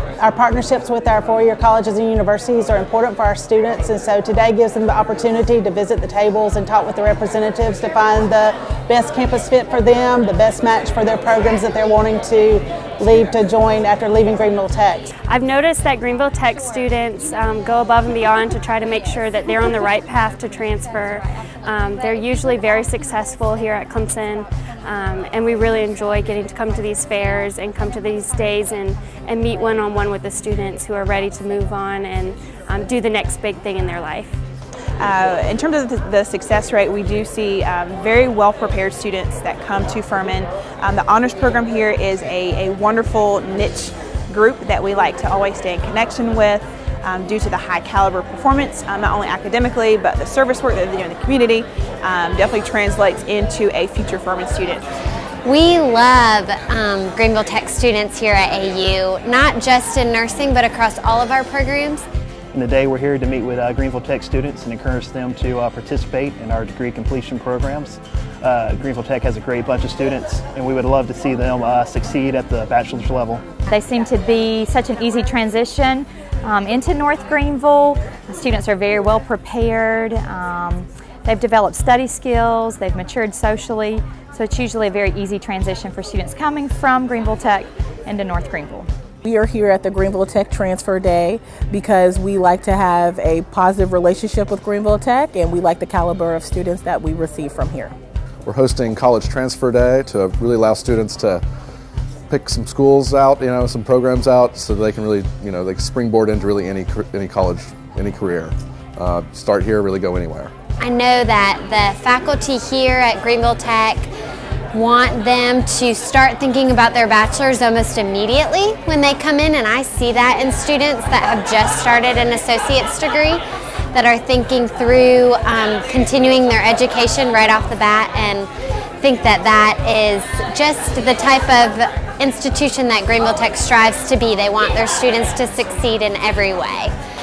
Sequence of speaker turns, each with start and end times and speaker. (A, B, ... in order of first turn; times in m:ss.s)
0:00.2-0:15.1 A
0:15.3-0:34.4 B
0:35.0-0:54.8 C
0:55.4-1:02.0 D
1:02.5-1:13.5 E
1:13.7-1:28.9 F
1:29.2-1:38.0 G
1:38.4-1:41.4 H
1:42.3-1:50.5 H
1:50.8-1:54.1 D
1:54.7-2:03.4 D
2:03.9-2:08.5 D
2:09.0-2:16.9 D